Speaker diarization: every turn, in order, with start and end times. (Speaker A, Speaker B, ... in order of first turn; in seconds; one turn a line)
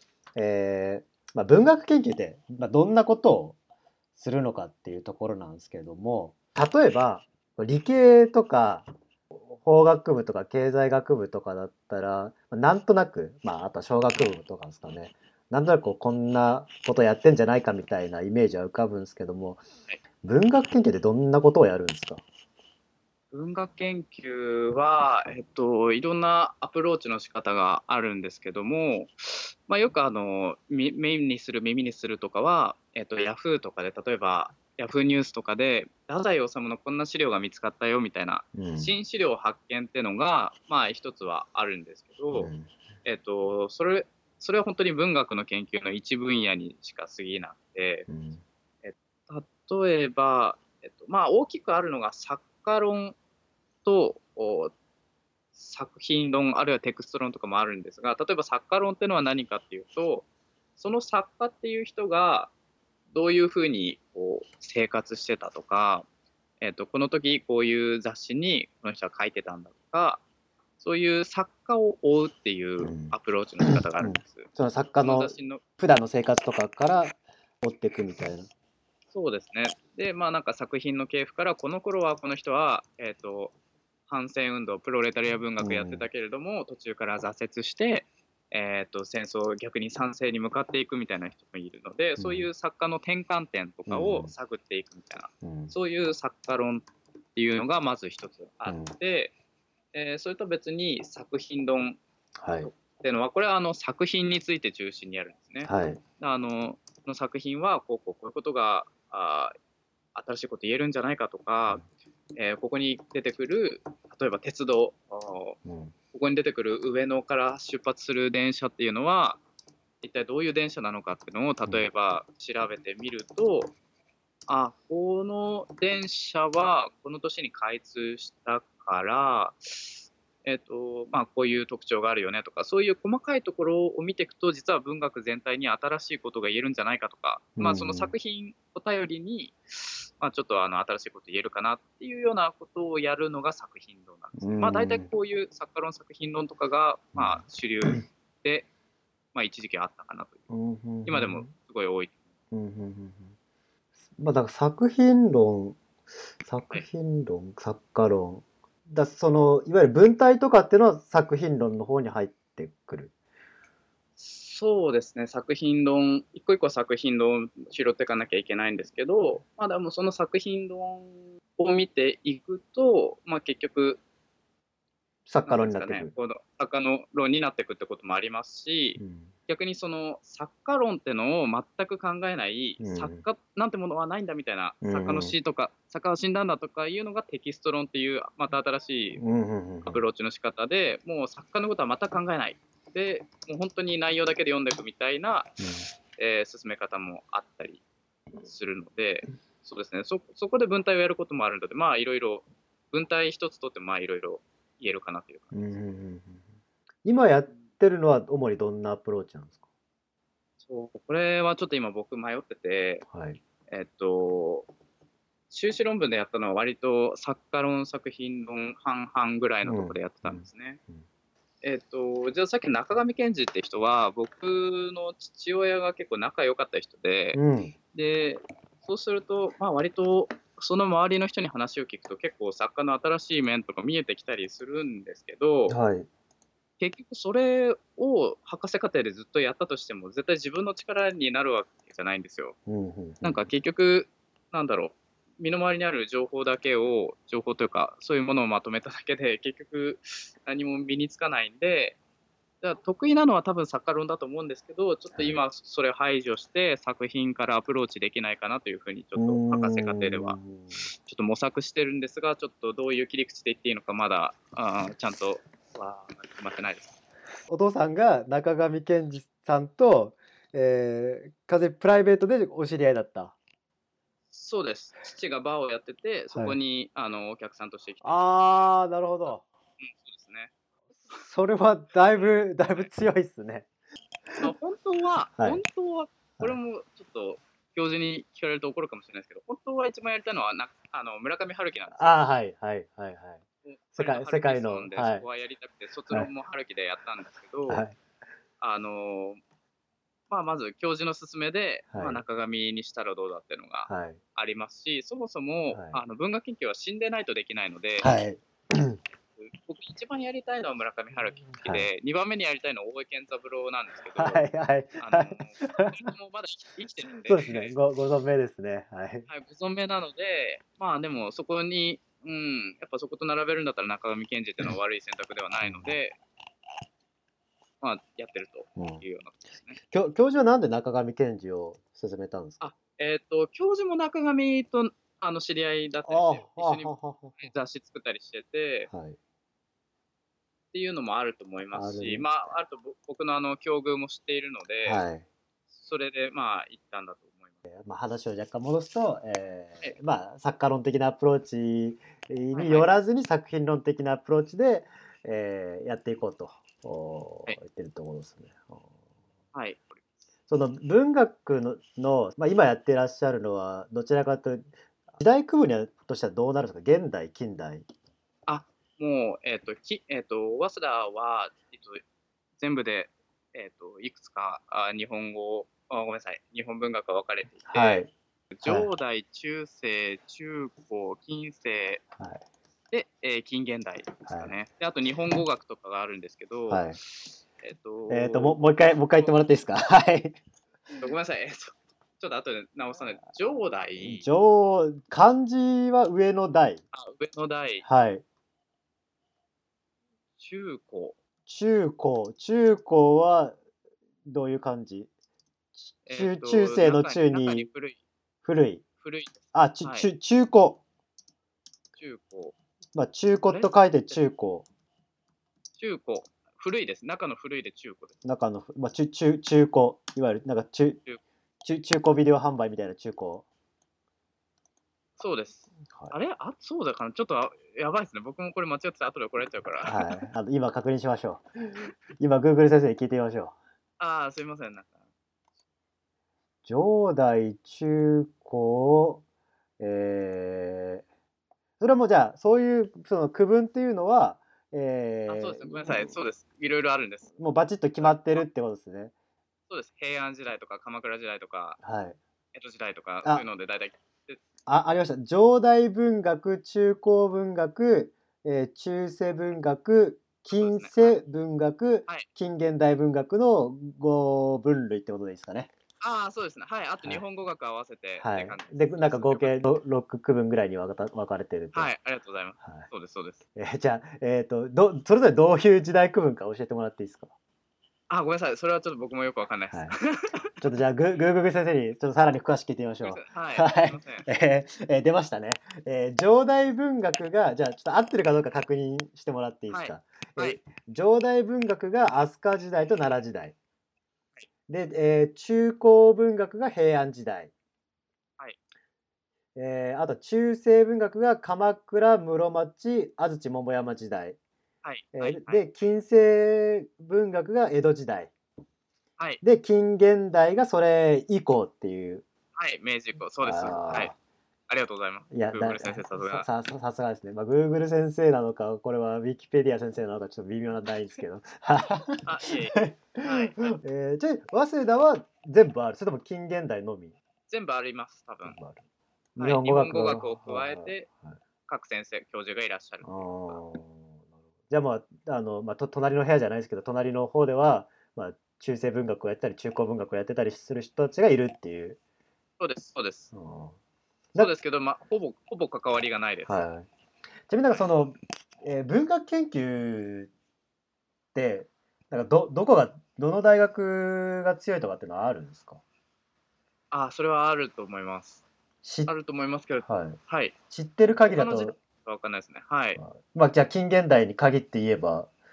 Speaker A: 0.3-3.6
Speaker A: 4.2-19.6
Speaker A: 20.2-22.2
Speaker B: 23.3-42.5
Speaker A: 38.5-38.9
Speaker A: 42.3-42.7
Speaker B: 43.0-48.1
Speaker A: 48.1-48.4
Speaker B: 48.8-53.2
Speaker B: 53.8-54.7
Speaker B: 55.5-62.5
Speaker B: 63.1-66.0
Speaker B: 66.6-70.2
Speaker B: 70.8-75.6
Speaker A: 72.8-78.5
Speaker B: 79.1-83.5
Speaker B: 84.1-99.3
Speaker A: 85.6-86.1
Speaker A: 92.2-92.5
Speaker A: 93.9-94.3
Speaker A: 95.4-95.7
Speaker A: 98.7-98.9
Speaker B: 99.9-102.0
Speaker A: 102.4-102.7
Speaker B: 102.6-109.5
Speaker A: 105.6-106.0
Speaker B: 110.1-111.8
Speaker B: 112.3-115.6
Speaker A: 115.6-115.9
Speaker B: 116.1-119.4
Speaker B: 120.0-123.7
Speaker B: 124.5-148.7
Speaker A: 137.6-138.1
Speaker A: 144.4-145.1
Speaker A: 147.1-147.4
Speaker B: 149.3-150.4
Speaker A: 150.5-151.5
Speaker B: 151.0-152.2
Speaker A: 152.5-153.3
Speaker A: 154.2-155.8
Speaker A: 156.4-163.1
Speaker B: 164.2-174.0
Speaker A: 175.3-176.1
Speaker B: 175.4-189.2
Speaker A: 179.0-179.3
Speaker A: 182.8-183.2
Speaker A: 184.8-185.3
Speaker A: 189.2-190.0
Speaker B: 189.8-195.6
Speaker A: 195.6-195.9
Speaker B: 196.2-197.8
Speaker B: 198.4-205.7
Speaker A: 205.5-206.4
Speaker A: 207.0-209.6
Speaker B: 210.6-213.1
Speaker A: 213.1-213.4
Speaker B: 213.7-214.7
Speaker B: 215.5-220.8
Speaker A: 219.6-221.0
Speaker B: 221.6-227.4
Speaker A: 227.3-227.7
Speaker B: 227.9-235.8
Speaker A: 235.7-236.1
Speaker B: 236.8-242.6
Speaker A: 242.7-243.5
Speaker B: 243.2-252.0
Speaker B: 252.6-260.4
Speaker A: 259.1-260.8
Speaker B: 261.1-266.9
Speaker A: 267.5-273.4
Speaker B: 274.3-278.7
Speaker A: 278.0-279.4
Speaker B: 279.3-280.5
Speaker A: 281.2-283.7
Speaker B: 282.0-282.9
Speaker B: 284.4-292.2
Speaker A: 291.9-293.4
Speaker B: 293.6-297.8
Speaker A: 293.9-295.2
Speaker A: 297.7-297.9
Speaker B: 298.6-299.4
Speaker B: 300.3-308.1
Speaker A: 301.9-302.2
Speaker A: 303.9-304.2
Speaker A: 305.7-306.0
Speaker A: 308.0-309.0
Speaker B: 309.4-317.7
Speaker A: 311.6-311.9
Speaker A: 314.1-316.1
Speaker A: 317.2-319.3
Speaker B: 319.3-326.2
Speaker A: 325.6-326.0
Speaker B: 327.8-329.8
Speaker A: 328.8-329.0
Speaker A: 329.9-332.6
Speaker B: 332.6-338.9
Speaker A: 336.1-337.5
Speaker A: 338.9-339.2
Speaker B: 340.7-345.0
Speaker A: 341.7-342.3
Speaker A: 344.8-345.2
Speaker B: 345.7-347.6
Speaker A: 347.7-358.9
Speaker B: 352.5-353.0
Speaker B: 359.5-360.0
Speaker A: 360.5-367.9
Speaker B: 368.5-372.0
Speaker B: 372.6-378.0
Speaker A: 377.7-378.1
Speaker B: 378.5-382.0
Speaker A: 378.6-378.9
Speaker B: 382.9-389.3
Speaker A: 384.3-384.5
Speaker A: 386.7-387.0
Speaker A: 388.1-390.4
Speaker B: 391.0-394.3
Speaker A: 394.0-396.8
Speaker B: 396.9-397.8
Speaker A: 397.8-398.2
Speaker B: 400.4-401.2
Speaker A: 401.4-403.6
Speaker A: 404.2-405.1
Speaker A: 405.8-407.7
Speaker B: 406.1-408.0
Speaker A: 408.4-408.8
Speaker B: 409.0-410.1
Speaker A: 409.5-410.8
Speaker B: 411.9-412.5
Speaker A: 412.9-414.6
Speaker B: 413.4-414.2
Speaker B: 415.8-418.2
Speaker A: 418.2-421.0
Speaker A: 421.6-423.4
Speaker B: 425.2-430.2
Speaker A: 429.9-433.6
Speaker B: 434.0-435.0
Speaker A: 436.6-439.2
Speaker A: 439.8-441.0
Speaker A: 441.8-446.2
Speaker B: 445.3-447.3
Speaker A: 447.4-449.1
Speaker B: 448.0-448.4
Speaker B: 449.7-451.8
Speaker A: 451.8-452.2
Speaker B: 452.5-454.4
Speaker A: 454.6-465.7
Speaker B: 460.5-461.2
Speaker B: 466.0-469.6
Speaker A: 468.2-471.9
Speaker B: 471.7-473.4
Speaker A: 472.6-472.9
Speaker A: 473.5-477.3
Speaker B: 478.1-480.5
Speaker A: 479.7-479.9
Speaker A: 480.6-493.6
Speaker B: 483.0-484.3
Speaker B: 489.7-490.6
Speaker A: 494.7-497.5
Speaker A: 499.5-504.4
Speaker B: 504.8-505.6
Speaker A: 505.1-508.3
Speaker A: 509.4-512.2
Speaker B: 512.5-514.1
Speaker A: 513.4-514.1
Speaker B: 514.7-516.5
Speaker A: 515.3-527.1
Speaker B: 522.2-523.8
Speaker B: 527.5-528.6
Speaker A: 528.4-528.8
Speaker A: 529.4-531.4
Speaker B: 529.4-531.1
Speaker B: 531.7-533.6
Speaker A: 533.0-542.0
Speaker B: 542.6-543.3
Speaker A: 543.3-543.8
Speaker B: 544.4-546.6
Speaker A: 546.5-546.9
Speaker A: 547.5-550.3
Speaker A: 551.3-555.8
Speaker B: 556.9-558.4
Speaker A: 558.8-559.1
Speaker B: 559.1-560.5
Speaker A: 559.8-560.2
Speaker A: 560.7-561.7
Speaker B: 561.2-563.0
Speaker A: 563.0-565.3